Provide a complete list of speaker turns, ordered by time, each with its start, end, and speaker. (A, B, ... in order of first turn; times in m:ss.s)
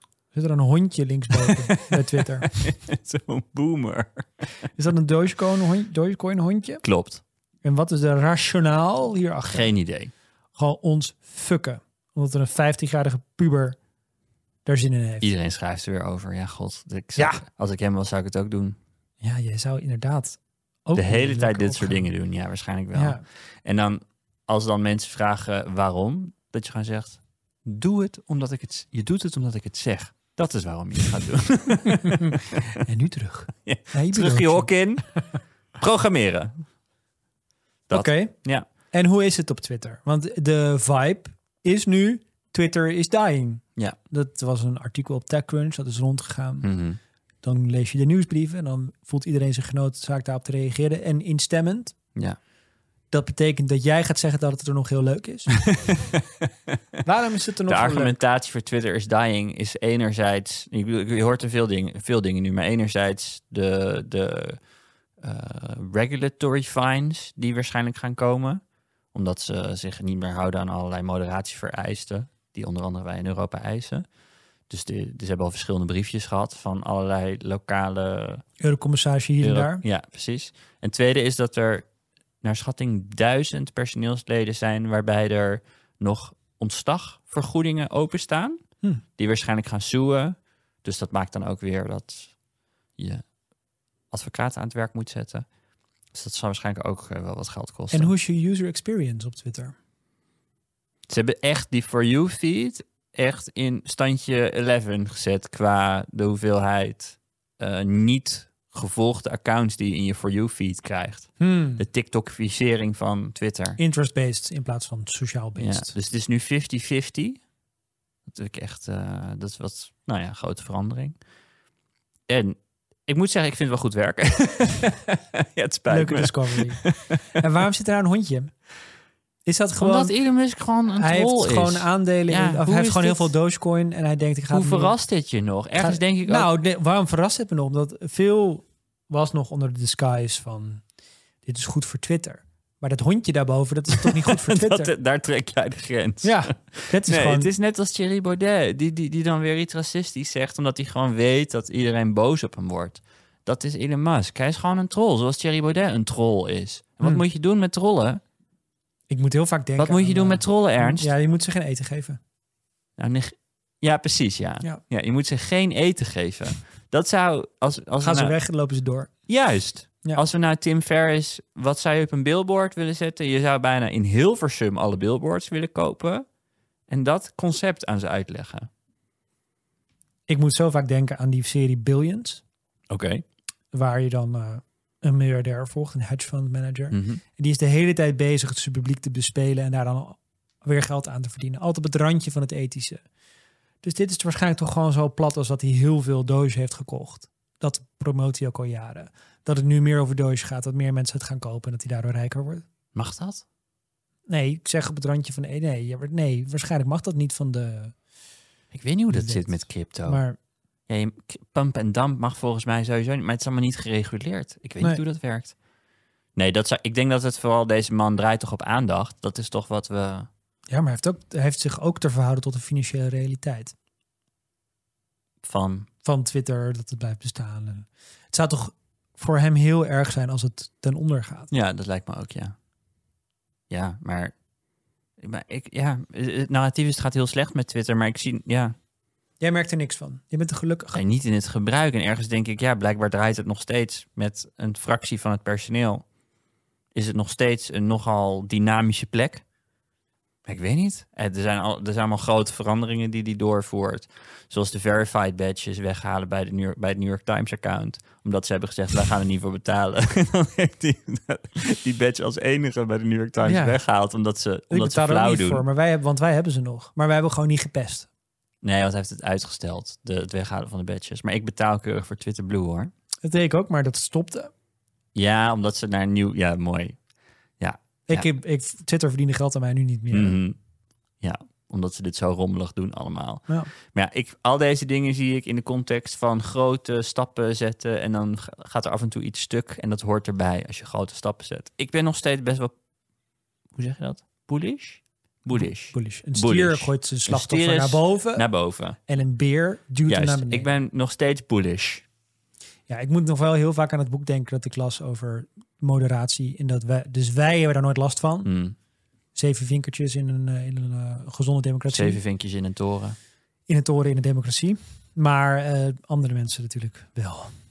0:00.3-0:02.5 A
0:01.5-0:04.4 B
0:04.8-0:06.8 A
0:06.8-0:07.2 B
0:07.6-0:09.7 A
0:09.4-0:10.1 B
0:10.6-0:13.8 A
0:14.6-0:15.3 A
0:15.2-0:18.8 B
0:17.2-0:17.4 A
0:19.2-0:22.1 A
0:20.9-0:32.6 B
0:22.9-0:23.2 A
0:32.1-0:34.7 A
0:33.6-0:35.1 B
0:35.8-0:36.5 B
0:37.9-0:38.6 B
0:37.9-0:38.4 A
0:38.9-0:46.7 A
0:46.6-0:47.0 B
0:47.4-0:52.0 A
0:53.1-0:55.5 A
0:55.6-0:56.7 B
0:57.0-0:58.2 A
0:57.7-1:04.6 B
1:05.2-1:08.6 B
1:09.1-1:14.0 B
1:14.7-1:18.4 B
1:18.6-1:19.8 A
1:19.4-1:21.9 B
1:22.4-1:28.6 B
1:29.2-1:32.3 B
1:33.0-1:33.2 B
1:34.1-1:35.4 B
1:36.1-1:38.1 B
1:37.9-1:39.7 A
1:41.1-1:53.8 B
1:51.4-1:51.8 A
1:53.8-1:55.9 A
1:55.6-1:57.4 B
1:58.2-2:01.2 B
2:02.3-2:07.4 B
2:05.9-2:06.8 A
2:07.4-2:08.5 A
2:09.4-2:10.1 A
2:09.8-2:13.3 B
2:10.9-2:15.0 A
2:14.5-2:16.5 B
2:15.8-2:20.8 A
2:21.4-2:24.9 A
2:23.9-2:38.2 B
2:26.2-2:27.5 A
2:39.1-2:42.2 A
2:39.8-2:41.1 B
2:43.0-2:48.4 B
2:48.0-2:49.1 A
2:49.3-2:56.2 B
2:56.9-2:58.7 B
3:00.3-3:02.4 A
3:02.9-3:03.2 B
3:03.7-3:13.0 A
3:06.9-3:07.2 B
3:13.8-3:22.6 A
3:22.9-3:23.4 B
3:24.3-3:27.9 A
3:28.7-3:30.2 B
3:29.1-3:30.4 A
3:30.9-3:35.5 B
3:36.4-3:40.3 B
3:40.7-3:43.7 A
3:45.4-3:45.9 B
3:46.0-3:51.5 A
3:51.5-3:52.5 B
3:53.7-3:54.3 B
3:55.2-3:58.7 B
3:59.4-4:01.0 A
4:00.9-4:06.0 B
4:06.9-4:09.4 B
4:10.4-4:25.6 B
4:23.4-4:23.8 A
4:24.7-4:28.1 A
4:28.6-4:32.9 B
4:33.2-4:34.5 A
4:35.1-4:37.0 B
4:37.6-4:38.3 B
4:38.1-4:40.4 A
4:40.1-4:40.6 B
4:41.2-4:52.7 B
4:53.7-4:59.0 B
4:55.6-4:58.5 A
4:59.0-5:00.7 A
5:00.0-5:02.0 B
5:02.9-5:08.5 A
5:08.4-5:08.8 B
5:09.3-5:12.2 A
5:11.9-5:13.2 B
5:13.7-5:17.5 A